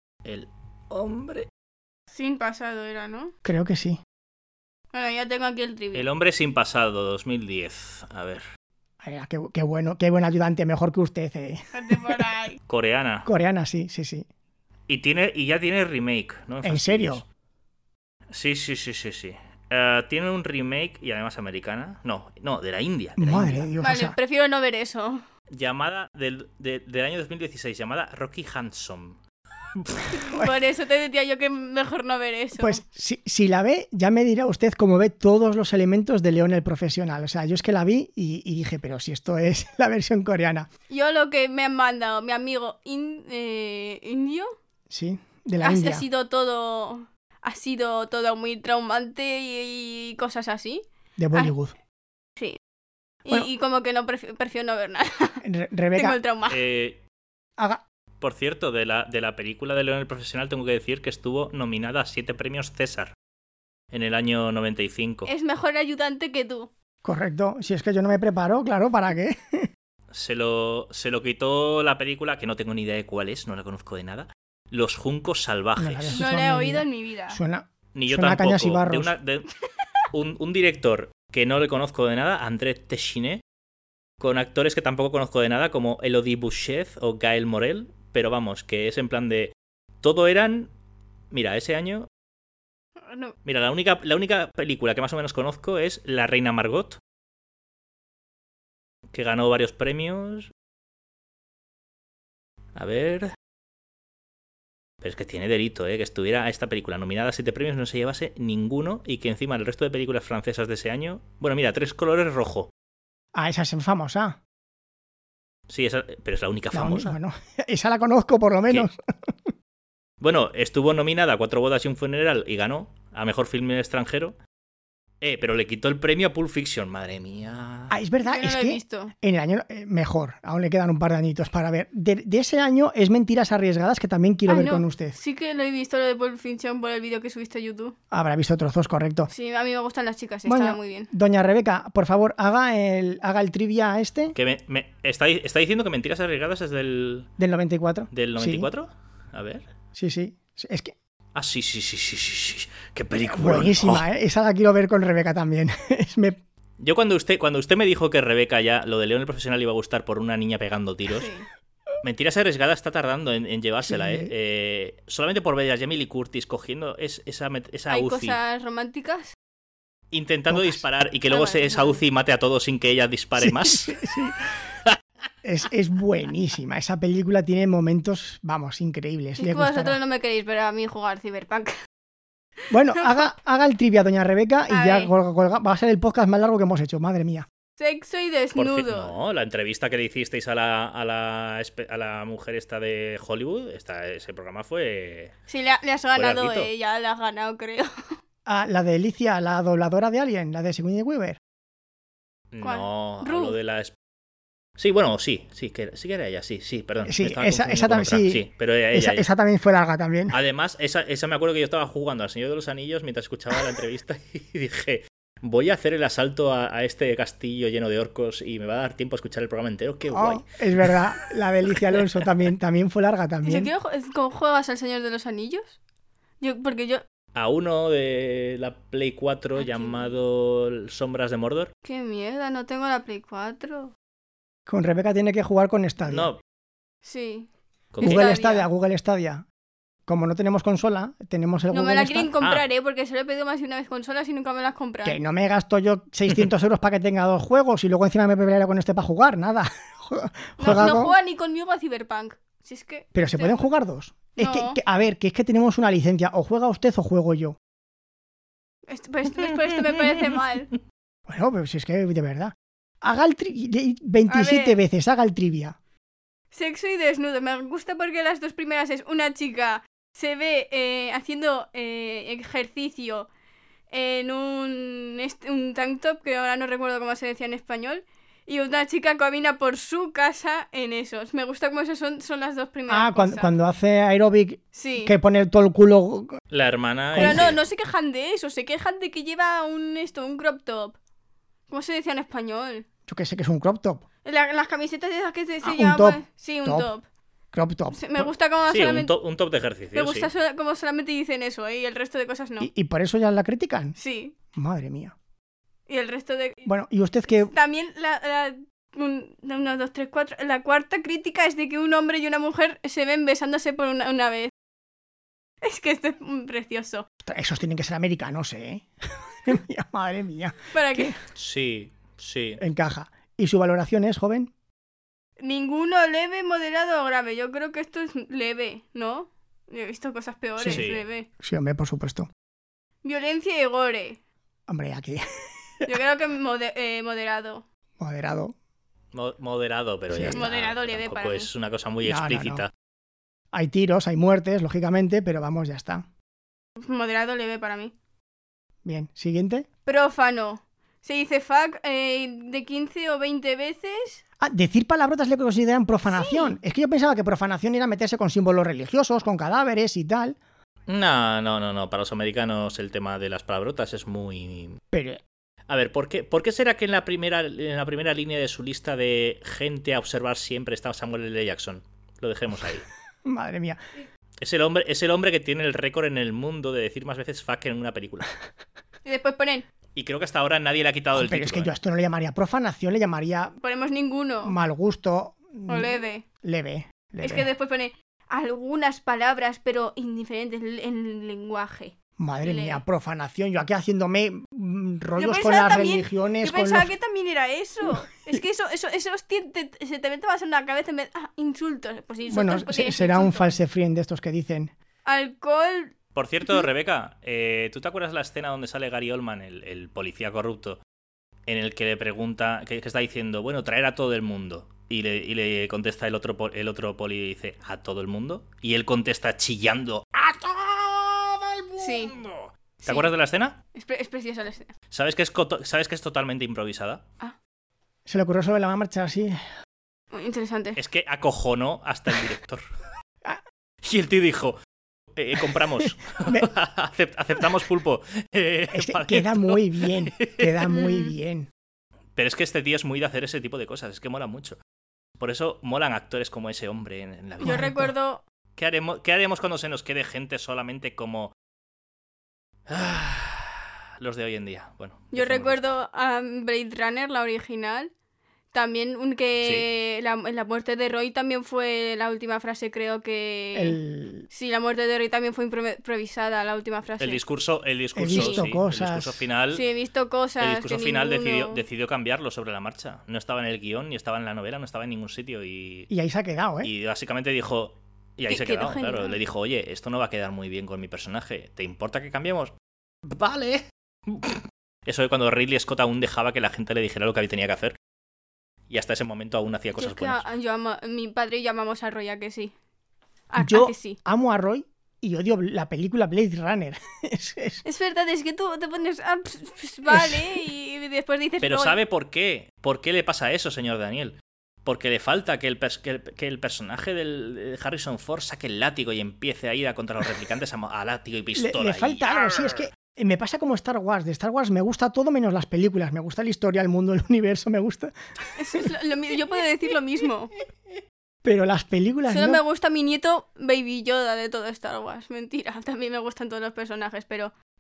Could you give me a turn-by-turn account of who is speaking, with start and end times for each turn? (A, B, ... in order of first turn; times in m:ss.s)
0:00.2-0:01.5 A
0:02.1-0:03.3 B
0:03.4-0:04.0 C
0:04.9-0:06.0 B
0:05.9-0:08.4 A
0:09.0-0:12.2 C
0:11.7-0:12.6 B
0:12.7-0:13.3 A
0:13.2-0:14.2 C
0:14.9-0:17.2 A
0:16.6-0:17.2 C
0:18.3-0:23.7 A
0:23.2-0:24.2 C
0:23.8-0:25.2 B
0:25.5-0:29.2 A
0:29.7-0:30.0 A
0:30.1-0:32.8 B
0:32.6-0:40.7 C
0:40.9-0:44.5 B
0:44.9-0:46.0 C
0:45.6-0:51.5 B
0:51.2-0:51.7 C
0:53.2-0:55.4 B
0:55.4-0:56.2 C
0:56.0-0:56.6 B
0:56.5-0:57.0 A
0:58.2-1:03.1 A
1:03.9-1:05.3 A
1:05.2-1:06.7 B
1:07.0-1:09.7 C
1:10.1-1:16.2 A
1:15.8-1:19.1 C
1:16.1-1:17.4 B
1:17.9-1:19.5 A
1:20.1-1:23.4 A
1:24.2-1:30.7 A
1:31.3-1:32.1 A
1:33.0-1:33.3 B
1:33.4-1:37.0 A
1:39.1-1:40.5 A
1:42.7-1:43.3 A
1:45.0-1:52.7 A
1:53.3-1:54.4 C
1:55.7-1:57.2 A
1:56.7-1:59.5 C
2:00.2-2:04.4 A
2:05.2-2:07.9 A
2:07.9-2:15.2 C
2:08.2-2:09.1 B
2:14.5-2:18.0 B
2:18.1-2:19.3 C
2:19.3-2:21.1 B
2:20.4-2:24.4 C
2:24.3-2:27.3 A
2:27.4-2:28.7 C
2:28.1-2:29.7 A
2:29.9-2:30.9 C
2:31.3-2:34.0 A
2:33.3-2:36.4 C
2:36.8-2:41.3 A
2:41.1-2:41.5 B
2:42.0-2:48.4 A
2:43.8-2:44.3 C
2:47.9-2:49.3 B
2:50.1-2:54.1 A
2:50.5-2:50.8 C
2:51.3-2:52.0 B
2:53.4-2:54.4 C
2:55.4-3:00.0 C
2:59.4-3:01.7 B
3:02.7-3:07.4 C
3:03.0-3:03.2 B
3:04.7-3:05.1 B
3:07.8-3:09.1 B
3:08.6-3:15.3 A
3:15.5-3:17.9 B
3:16.1-3:16.7 A
3:18.4-3:21.4 C
3:22.5-3:23.9 A
3:22.6-3:23.5 B
3:24.8-3:29.3 A
3:27.0-3:30.4 C
3:30.3-3:41.0 A
3:40.1-3:43.7 C
3:41.8-3:42.0 A
3:43.4-3:45.8 B
3:46.4-3:47.0 B
3:47.3-3:51.7 A
3:49.6-3:50.1 B
3:51.8-3:53.9 B
3:54.7-3:56.3 C
3:56.1-3:56.4 A
3:57.0-3:57.5 B
3:57.9-3:58.3 A
3:58.0-3:58.7 B
3:58.0-3:59.4 C
4:00.1-4:02.3 C
4:01.7-4:05.2 B
4:05.0-4:11.1 C
4:10.6-4:13.7 B
4:13.1-4:17.6 C
4:14.4-4:14.8 B
4:18.9-4:20.7 B
4:19.4-4:20.4 A
4:21.3-4:25.8 C
4:24.3-4:24.8 B
4:26.5-4:33.3 B
4:33.9-4:43.5 B
4:42.9-4:46.4 C
4:44.7-4:45.1 B
4:46.5-4:47.6 A
4:47.1-4:47.5 C
4:47.2-4:51.0 B
4:51.7-4:52.9 B
4:53.1-4:54.0 C
4:54.2-4:57.0 B
4:55.6-4:56.9 C
4:57.5-4:58.3 C
4:57.9-4:59.1 B
4:58.7-5:00.3 A
4:59.9-5:02.7 B
5:02.6-5:04.0 C
5:04.0-5:04.3 B
5:04.5-5:05.1 C
5:05.9-5:06.7 B
5:06.7-5:07.5 C
5:07.3-5:14.5 B
5:15.6-5:17.0 B
5:17.2-5:18.9 C
5:19.4-5:21.2 C
5:20.7-5:21.1 B
5:21.3-5:22.6 A
5:22.6-5:24.5 C
5:25.4-5:31.3 B
5:30.6-5:30.8 C
5:30.7-5:31.0 A
5:31.4-5:32.3 C
5:33.0-5:34.2 B
5:34.7-5:35.2 C
5:35.9-5:37.6 B
5:38.0-5:38.5 C
5:39.1-5:42.7 A
5:40.1-5:40.4 C
5:40.3-5:41.5 B
5:42.0-5:42.6 C
5:43.5-5:46.0 C
5:46.8-5:47.9 B
5:48.8-5:49.7 C
5:49.9-5:54.2 B
5:54.4-6:00.4 C
5:56.1-5:56.6 B
6:00.9-6:04.8 A
6:04.9-6:05.2 C
6:05.7-6:12.9 A
6:13.2-6:13.8 C
6:14.4-6:18.3 A
6:19.0-6:19.7 B
6:20.0-6:21.7 A
6:21.1-6:23.5 C
6:23.6-6:24.6 B
6:24.4-6:27.5 C
6:25.7-6:26.2 B
6:27.2-6:32.8 B
6:32.2-6:36.9 C
6:35.2-6:43.5 B
6:42.3-6:44.7 C
6:45.0-6:45.9 B
6:46.1-6:50.8 A
6:51.5-7:03.6 A
7:01.8-7:02.1 B
7:02.8-7:03.1 B
7:03.7-7:04.7 B
7:04.9-7:07.0 A
7:08.1-7:09.4 C
7:10.1-7:10.8 B
7:10.8-7:12.6 A
7:13.8-7:14.6 A
7:15.1-7:20.7 A
7:16.2-7:16.5 C
7:18.7-7:21.5 C
7:20.7-7:21.1 B
7:22.2-7:24.6 A
7:25.2-7:27.7 A
7:27.4-7:27.9 C
7:27.4-7:28.2 B
7:28.6-7:31.3 A
7:32.7-7:35.6 A
7:35.1-7:37.9 B
7:38.5-7:43.8 B
7:43.5-7:44.3 C
7:44.3-7:47.2 B
7:47.0-7:49.6 A
7:48.0-7:49.2 C
7:48.1-7:48.4 B
7:49.5-7:51.6 B
7:50.4-7:55.9 A
7:55.9-7:56.7 C
7:56.6-8:02.5 A
7:58.3-7:59.2 B
8:03.0-8:07.8 A
8:08.7-8:10.2 A
8:09.8-8:12.5 B
8:13.3-8:14.0 B
8:13.4-8:17.6 C
8:17.6-8:21.8 B
8:19.9-8:20.4 C
8:21.4-8:32.6 A
8:31.4-8:37.9 C
8:38.4-8:40.3 B
8:41.2-8:42.4 C
8:42.1-8:47.3 B